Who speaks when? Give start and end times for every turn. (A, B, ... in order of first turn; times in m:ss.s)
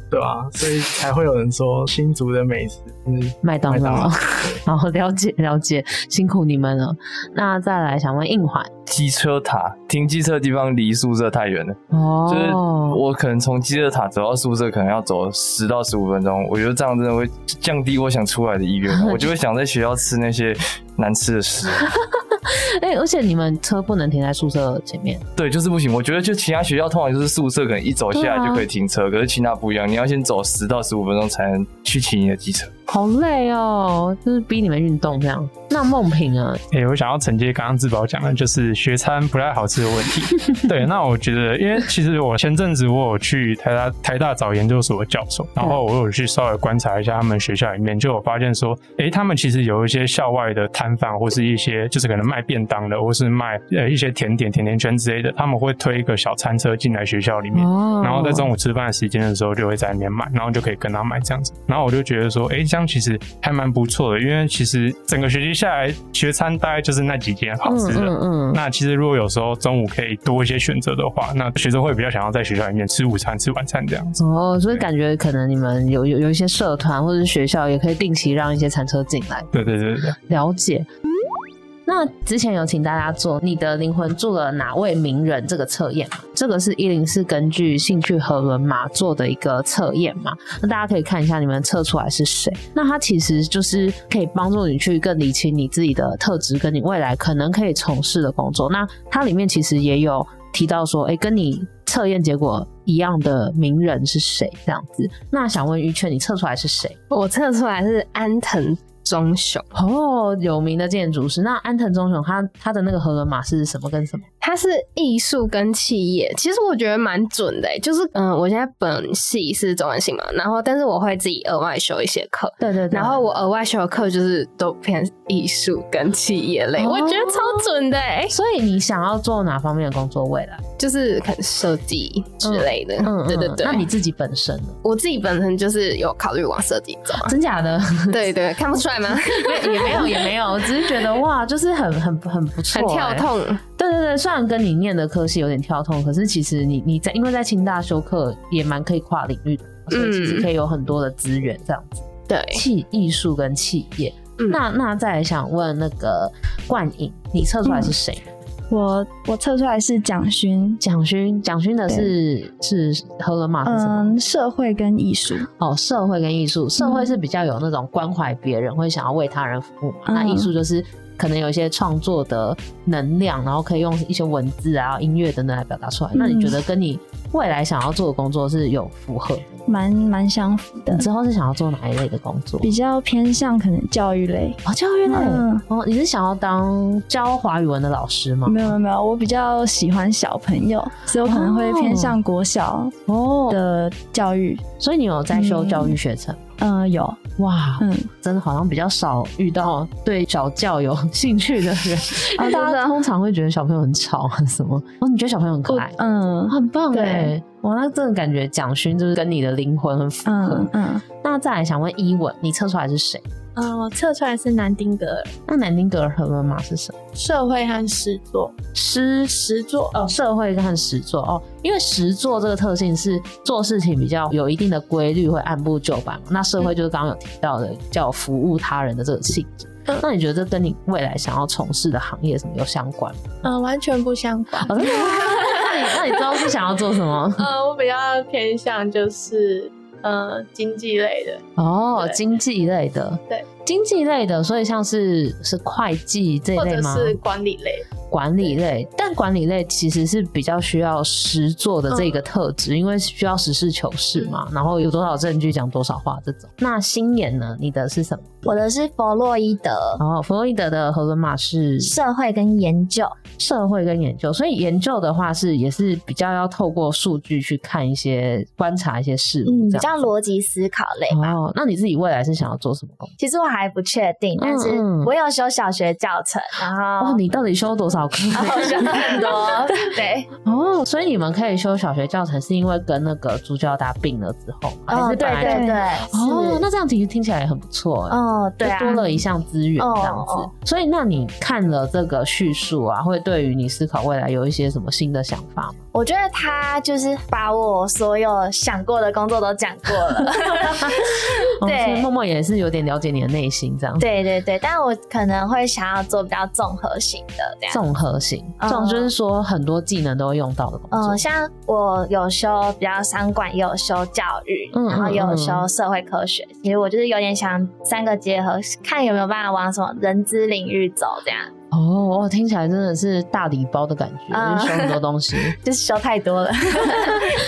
0:00.1-0:04.6 A
0:03.4-0:08.7 B
0:08.9-0:21.9 C
0:11.9-0:13.0 B
0:18.9-0:19.3 B
0:21.8-0:25.2 B
0:25.4-0:32.7 C
0:28.1-0:28.6 B
0:32.9-0:36.6 B
0:36.7-1:14.2 D
0:57.5-0:58.5 B
1:07.6-1:08.6 B
1:14.2-1:19.5 B
1:19.5-1:20.2 D
1:20.3-1:20.9 B
1:21.8-1:47.0 B
1:47.1-1:49.7 E
1:49.7-1:54.3 B
1:54.4-2:08.3 E
2:02.6-2:03.2 B
2:06.8-2:07.7 B
2:08.3-2:10.6 B
2:10.8-2:13.8 E
2:12.4-2:14.8 B
2:14.8-2:17.3 E
2:17.2-2:18.3 B
2:18.1-2:20.3 E
2:19.1-2:38.3 B
2:22.7-2:23.6 E
2:29.9-2:30.5 E
2:32.3-2:32.6 E
2:37.6-2:37.9 F
2:38.7-2:40.8 F
2:40.8-2:44.1 B
2:41.9-2:42.1 F
2:43.6-2:45.5 F
2:45.6-2:59.7 B
2:46.8-2:47.1 F
2:50.1-2:50.5 F
2:56.1-2:56.6 F
2:59.7-3:01.1 F
3:00.9-3:02.7 B
3:02.6-3:05.6 F
3:04.6-3:08.8 B
3:08.4-3:13.0 F
3:11.2-3:12.2 B
3:13.1-3:13.6 B
3:13.5-3:14.6 F
3:14.8-3:16.4 B
3:15.3-3:16.0 F
3:16.6-3:17.2 F
3:17.4-3:33.2 B
3:17.8-3:18.1 F
3:22.4-3:22.9 F
3:25.7-3:27.3 F
3:30.2-3:31.0 F
3:33.6-3:35.3 G
3:35.4-3:37.0 B
3:37.1-3:38.6 G
3:38.8-3:39.3 B
3:39.2-3:39.9 G
3:39.9-3:53.4 B
3:53.4-3:56.6 G
3:54.6-3:57.5 B
3:57.3-4:01.4 G
4:01.6-4:07.2 B
4:02.0-4:02.2 G
4:06.5-4:07.8 G
4:08.1-4:18.6 B
4:11.9-4:12.2 G
4:18.4-4:20.0 H
4:20.0-4:21.9 B
4:21.8-4:23.2 H
4:23.4-4:30.1 B
4:29.4-4:31.3 H
4:31.1-4:33.1 B
4:33.2-4:37.2 H
4:34.4-4:35.1 B
4:37.0-4:39.2 B
4:38.3-4:40.3 H
4:40.4-4:55.8 B
4:44.9-4:46.6 H
4:45.4-4:45.8 F
4:48.1-4:49.2 H
4:49.8-4:50.5 H
4:55.9-5:02.0 H
5:01.6-5:04.0 B
5:04.0-5:07.8 H
5:07.7-5:11.2 B
5:08.6-5:09.1 H
5:10.9-5:21.5 H
5:14.7-5:15.6 B
5:21.7-5:25.6 B
5:24.3-5:25.0 H
5:25.6-5:27.3 H